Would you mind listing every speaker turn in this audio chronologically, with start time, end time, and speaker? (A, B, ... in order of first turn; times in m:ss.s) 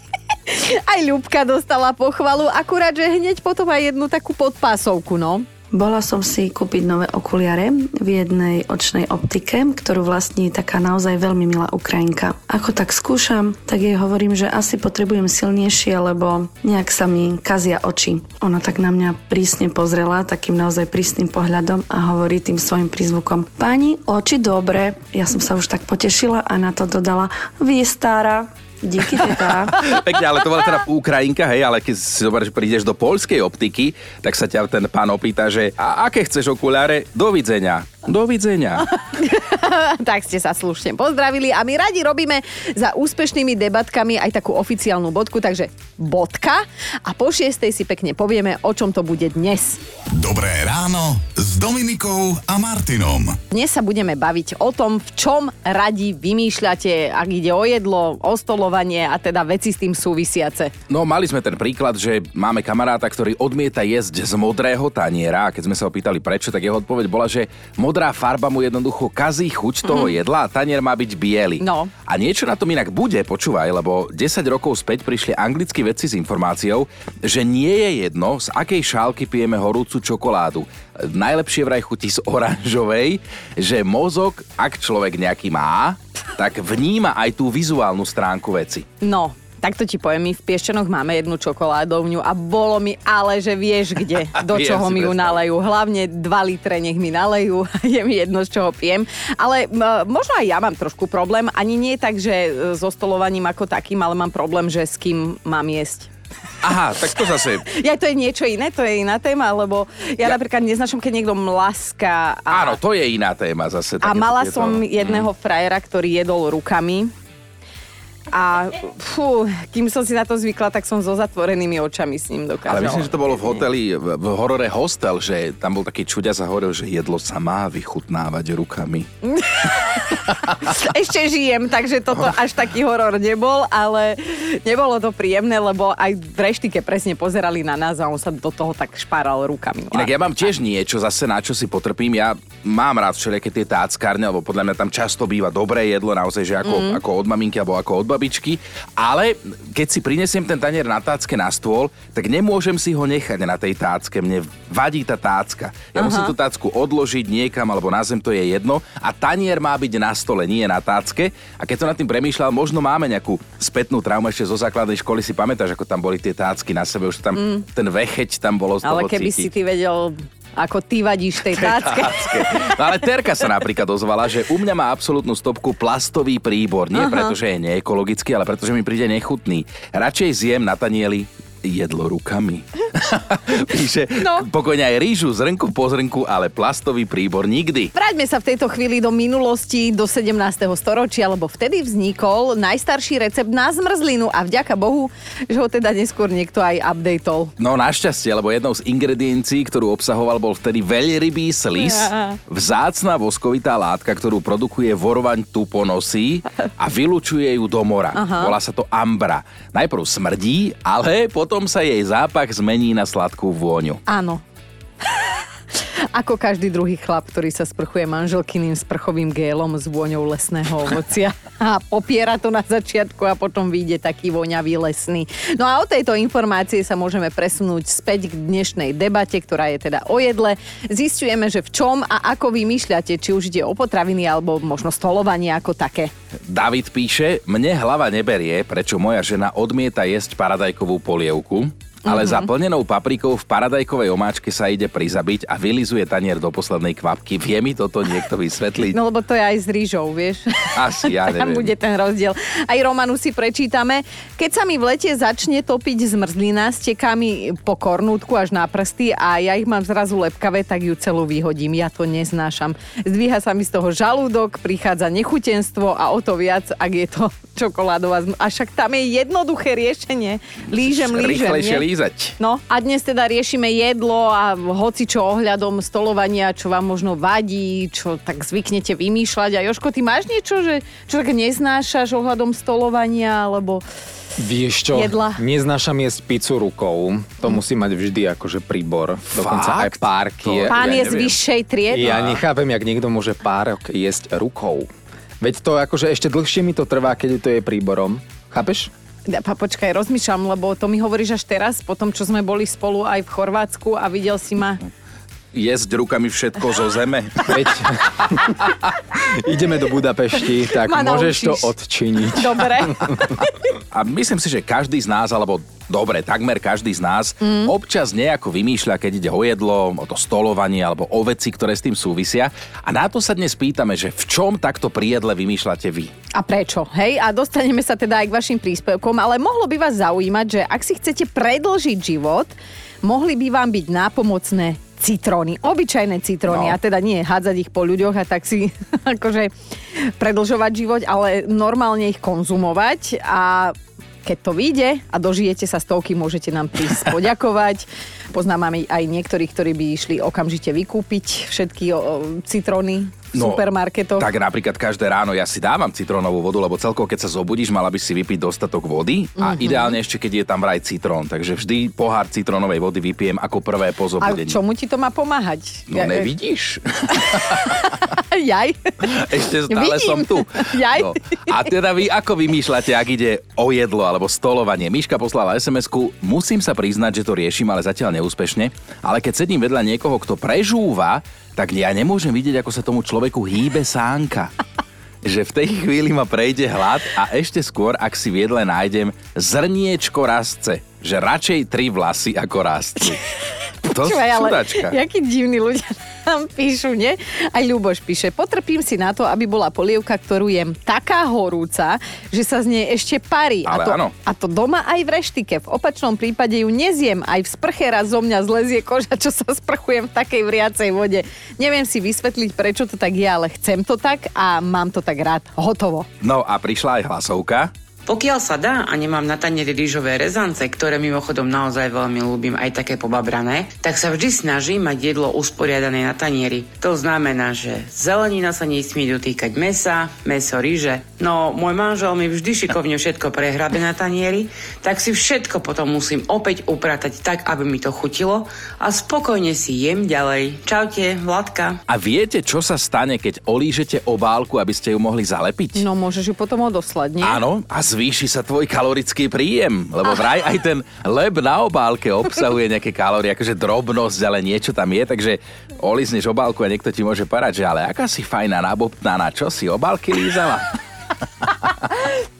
0:00.5-0:05.4 A
0:05.7-0:29.9 B
0:29.8-0:38.9 C
0:38.9-0:49.8 A
0:50.1-0:53.4 D
0:53.5-1:00.7 A
1:00.9-1:28.9 C
1:11.6-1:11.9 A
1:29.0-1:46.1 A
1:34.3-1:35.4 C
1:46.6-1:47.6 C
1:47.7-1:52.8 A
1:52.5-1:55.2 C
1:54.0-1:57.1 A
1:58.3-2:03.6 A
2:02.7-2:09.1 C
2:09.2-2:20.1 A
2:19.9-2:49.5 C
2:26.6-2:27.0 A
2:35.9-2:36.3 A
2:47.3-2:47.6 A
2:48.8-2:52.7 A
2:51.5-3:07.9 C
2:56.9-2:57.3 A
3:04.2-3:04.4 A
3:07.9-3:17.5 A
3:17.6-3:34.0 C
3:21.8-3:22.4 A
3:28.1-3:28.5 A
3:34.1-3:34.4 A
3:36.1-3:56.1 A
3:56.5-4:09.0 C
4:02.1-4:02.5 A
4:08.9-4:31.8 A
4:10.7-4:11.7 C
4:30.8-4:32.4 C
4:32.4-4:43.8 A
4:44.4-4:51.2 E
4:44.9-4:45.4 A
4:49.3-4:51.3 C
4:50.7-4:52.1 A
4:51.9-4:58.9 E
4:52.0-4:52.4 C
4:59.3-5:04.8 A
5:05.5-5:07.9 C
5:07.5-5:13.3 E
5:10.8-5:11.7 A
5:12.3-5:13.6 A
5:13.9-5:26.1 C
5:17.4-5:17.7 A
5:26.3-5:54.3 A
5:36.5-5:36.8 C
5:53.3-5:53.6 C
5:54.2-6:04.6 C
5:59.4-5:59.9 A
6:04.2-6:06.3 A
6:05.9-6:08.0 C
6:07.1-6:11.6 A
6:09.0-6:24.5 C
6:25.2-6:33.2 C
6:33.8-6:56.1 A
6:33.9-6:35.0 C
6:43.6-6:44.1 C
6:56.2-6:57.7 C
6:58.1-7:21.8 F
7:21.9-7:25.8 C
7:25.8-7:27.4 A
7:27.2-7:40.8 C